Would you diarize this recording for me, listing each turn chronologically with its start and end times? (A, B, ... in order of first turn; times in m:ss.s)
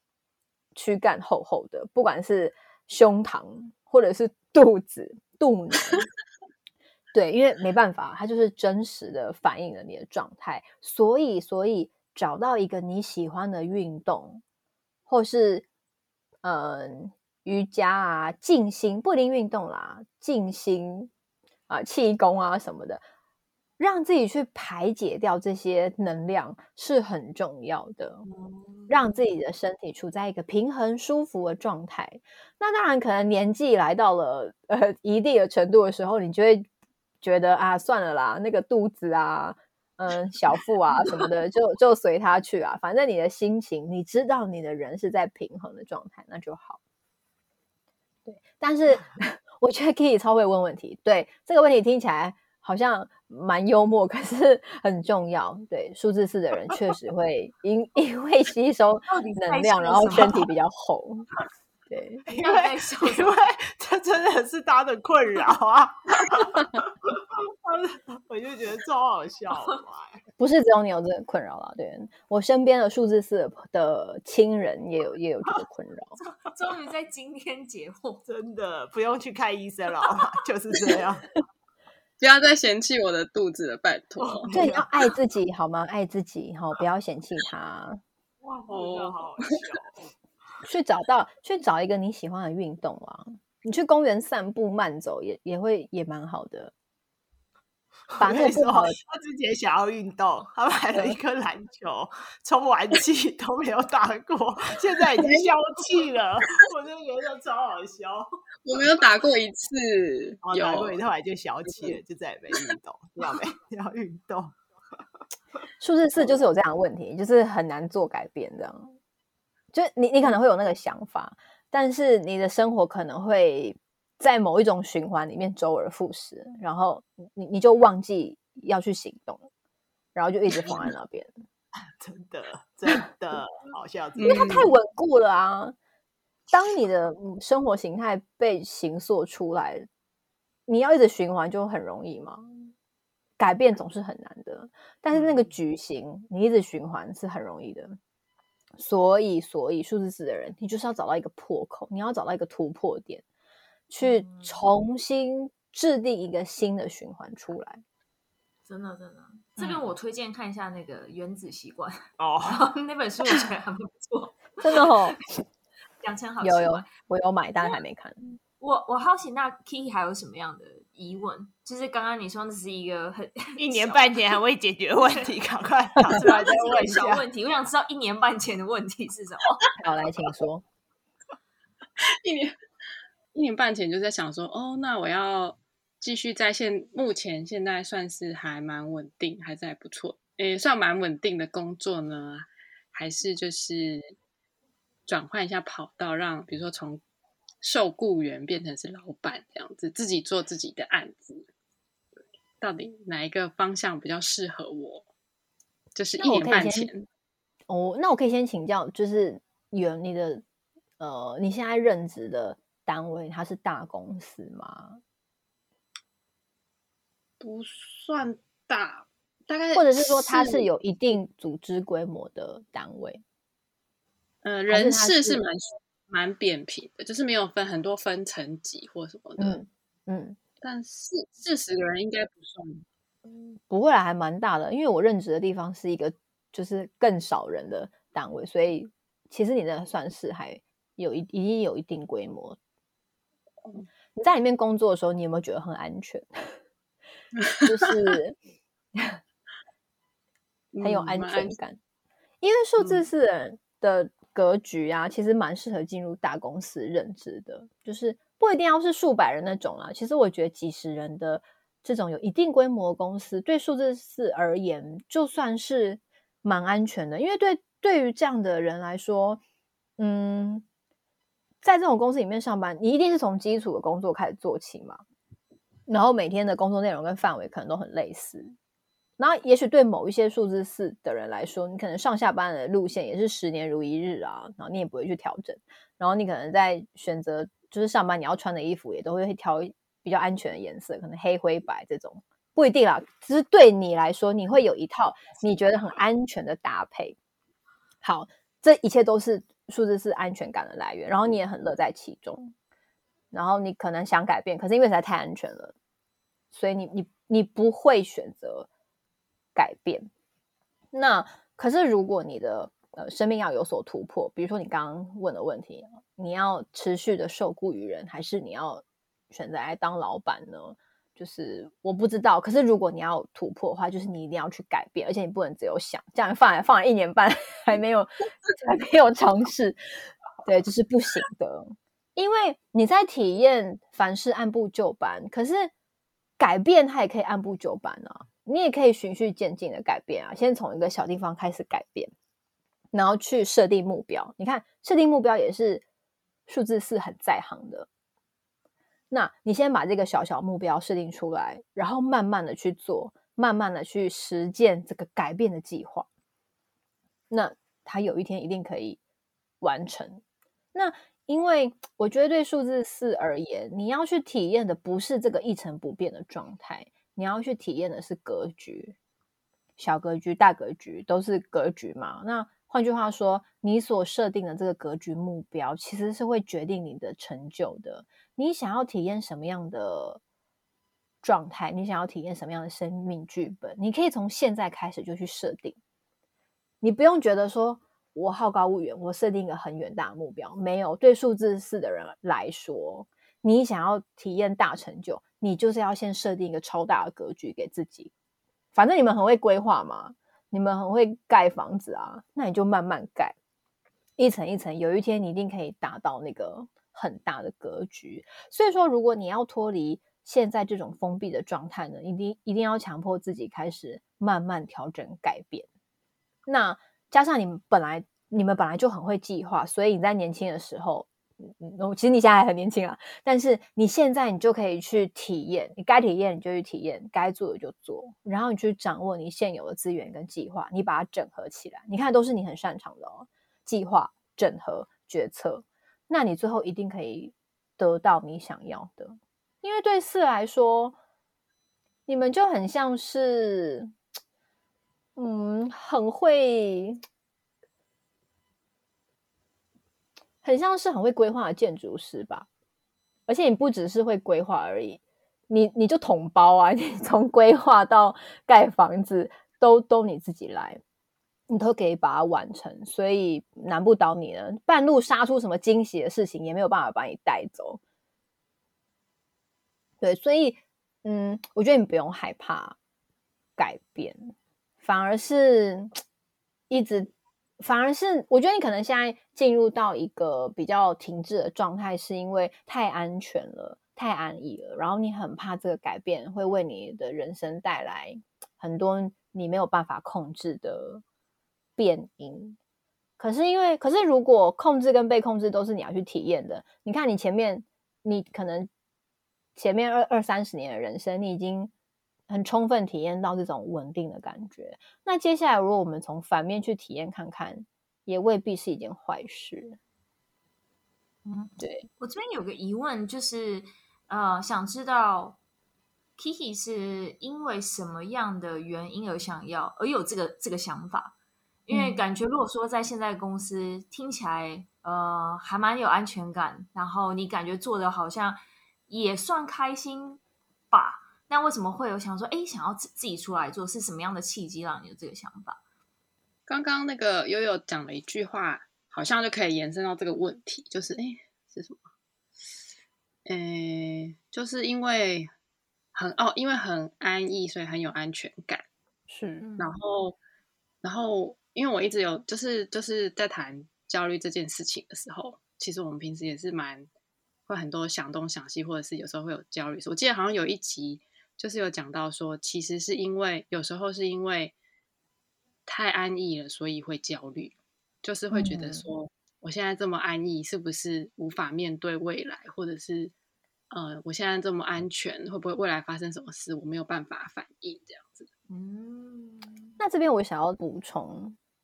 0:00.8-0:06.1 A
0:07.1-0:14.4 A
0:15.1-0:15.7 A
0:16.4-0:21.1 A
0:21.7-0:23.0 A
0:23.8-0:28.3 A
0:28.2-0:29.0 B
0:28.9-0:36.7 A
0:37.2-0:46.8 A
0:48.3-1:01.3 A
0:59.1-1:00.5 B
1:01.9-1:02.2 A
1:02.3-1:10.2 C
1:02.4-1:03.4 B
1:10.4-1:16.2 A
1:16.2-1:18.2 B
1:18.3-1:21.3 C
1:22.2-1:24.5 D
1:24.2-1:24.9 C
1:24.5-1:28.0 A
1:28.4-1:30.0 C
1:28.7-1:29.4 D
1:30.6-1:36.7 A
1:38.1-1:48.3 C
1:38.2-1:39.0 A
1:48.6-1:51.0 D
1:50.4-1:54.6 C
1:51.7-1:52.0 D
1:55.8-1:59.0 A
1:59.7-2:09.5 A
2:10.2-2:11.3 A
2:12.0-2:14.6 C
2:14.2-2:14.7 D
2:14.2-2:15.8 A
2:16.5-2:19.9 A
2:20.7-2:22.7 A
2:23.4-2:28.0 A
2:28.8-2:33.2 A
2:33.9-2:37.8 A
2:34.0-2:34.6 B
2:38.6-2:45.2 B
2:42.2-2:42.6 C
2:44.6-2:45.2 A
2:46.0-2:46.9 B
2:46.4-2:48.4 A
2:48.6-2:54.2 B
2:53.6-2:57.3 C
2:56.1-2:59.7 B
2:59.8-3:00.6 A
3:02.0-3:02.6 D
3:03.3-3:14.0 D
3:15.1-3:17.0 D
3:17.6-3:21.5 D
3:22.6-3:25.1 D
3:26.0-3:27.1 D
3:26.2-3:26.9 A
3:27.7-3:30.4 A
3:31.0-3:35.0 A
3:37.4-3:40.7 D
3:39.8-3:43.2 A
3:44.4-3:49.6 D
3:44.7-3:45.4 A
3:49.4-3:50.4 A
3:50.6-3:52.8 D
3:53.3-4:02.6 A
4:04.2-4:06.6 A
4:07.4-4:07.9 D
4:07.6-4:08.4 A
4:10.7-4:11.6 D
4:10.8-4:11.8 A
4:12.4-4:29.4 A
4:30.0-4:30.6 A
4:31.6-4:35.0 A
4:35.9-4:38.5 A
4:39.2-4:57.2 A
4:58.0-5:02.5 A
5:03.3-5:05.7 A
5:06.5-5:08.7 A
5:09.6-5:10.1 A
5:10.9-5:29.8 A
5:30.4-5:35.7 A
5:36.4-5:42.1 A
5:42.9-5:45.8 A
5:46.5-5:47.9 A
5:49.1-5:56.1 A
5:57.3-5:59.0 A
5:59.6-6:00.2 A
6:00.7-6:09.0 A
6:09.8-6:20.2 A
6:21.2-6:25.8 A
6:26.8-6:38.1 A
6:38.7-6:43.4 A
6:44.2-6:55.7 A
6:56.5-7:21.0 A
7:22.1-7:23.9 A
7:25.2-7:27.0 A
7:30.4-7:32.5 A
7:33.3-7:40.8 A
7:41.5-7:47.8 A
7:50.0-7:52.8 A
7:53.6-7:56.0 A
7:56.7-8:11.0 A
8:11.8-8:12.6 A
8:13.2-8:18.7 A
8:19.6-8:21.7 A
8:22.3-8:29.8 A
8:31.3-8:31.9 A
8:32.0-8:35.4 B
8:36.2-8:41.2 B
8:41.7-8:55.6 B
8:41.7-8:42.0 A
8:56.5-9:01.8 D
9:03.3-9:05.3 D
9:05.9-9:08.6 D
9:09.1-9:09.4 A
9:09.4-9:09.7 B
9:09.6-9:10.2 D
9:10.8-9:16.9 D
9:17.5-9:24.5 D
9:25.7-9:33.1 D
9:28.3-9:28.9 A
9:33.7-9:38.3 D
9:38.5-9:39.7 B
9:39.8-9:41.4 A